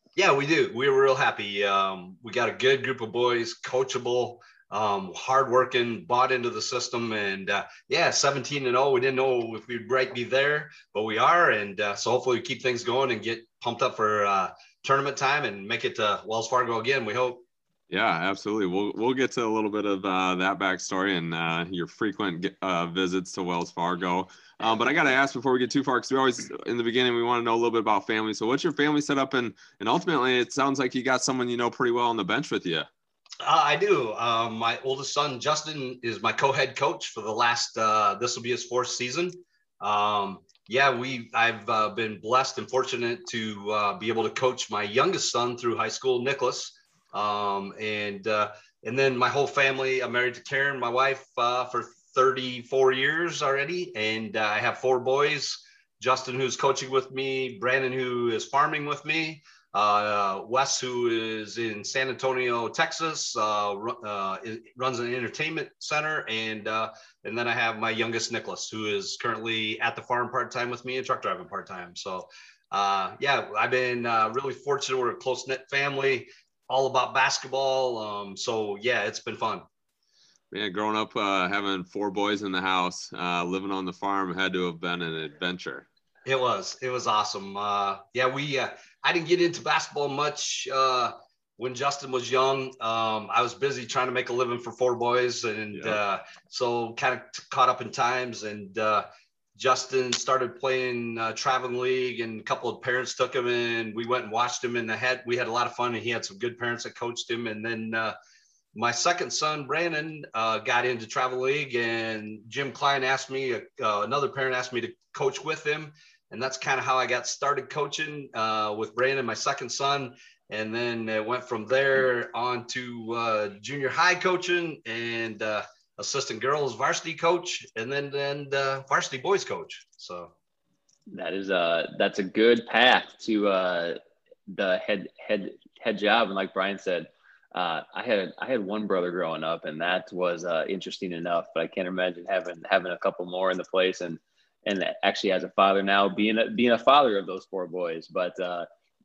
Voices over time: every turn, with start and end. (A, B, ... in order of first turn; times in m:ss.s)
0:00.2-0:17.4 A
0:17.9-0:32.9 B
0:33.4-1:19.6 A
1:20.5-1:25.8 B
1:26.2-1:48.1 A
1:48.7-2:10.3 A
2:11.1-2:28.7 C